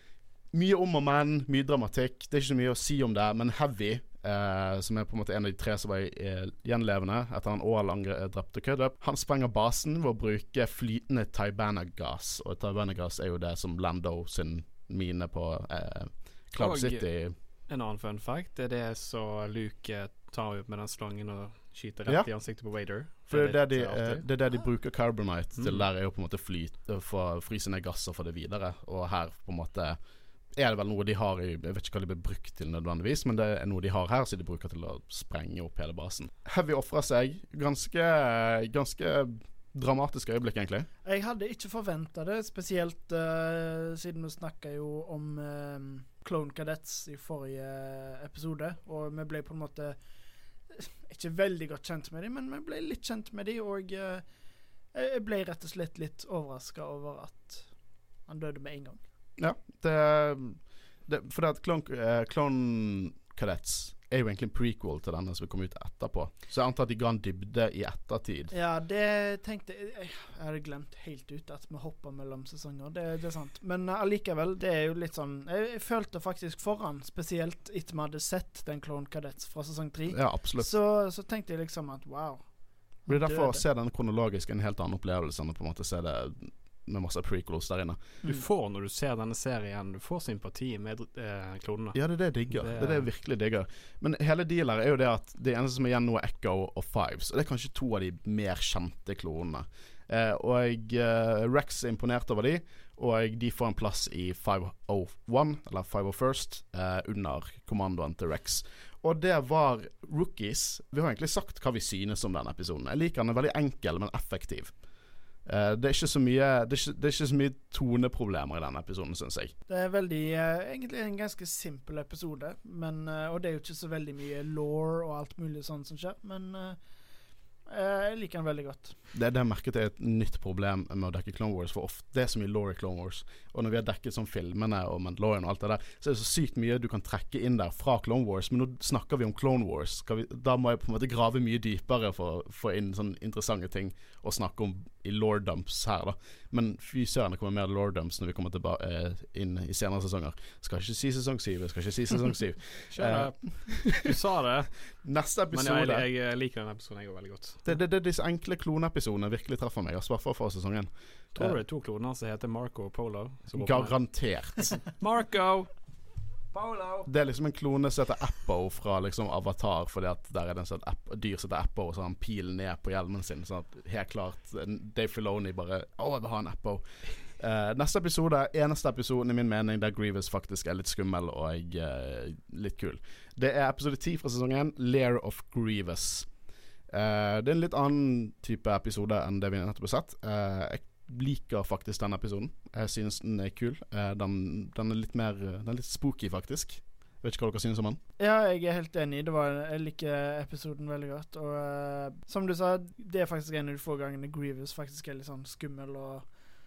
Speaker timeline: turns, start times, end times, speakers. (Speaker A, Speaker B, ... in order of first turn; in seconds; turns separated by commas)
Speaker A: 0.5-17.3, Speaker B: 16.6-17.1, Speaker B: 17.7-24.2, Speaker A: 23.3-30.0, Speaker B: 25.6-25.9, Speaker A: 30.6-40.9, Speaker C: 41.0-50.0, Speaker C: 50.7-54.2, Speaker C: 54.9-59.0, Speaker A: 59.4-68.5, Speaker C: 68.5-83.6, Speaker A: 80.1-80.7, Speaker A: 83.1-88.0, Speaker B: 88.2-93.1, Speaker A: 91.9-114.7, Speaker A: 115.4-119.5, Speaker C: 119.7-126.8, Speaker C: 127.7-128.9, Speaker A: 129.1-154.1, Speaker B: 152.9-154.8, Speaker A: 155.0-156.1, Speaker B: 155.5-157.7, Speaker A: 157.6-161.6, Speaker B: 161.3-164.0, Speaker A: 163.5-164.8, Speaker B: 164.6-165.7, Speaker C: 166.5-167.1, Speaker A: 167.1-186.3, Speaker A: 186.9-198.0, Speaker C: 198.2-206.3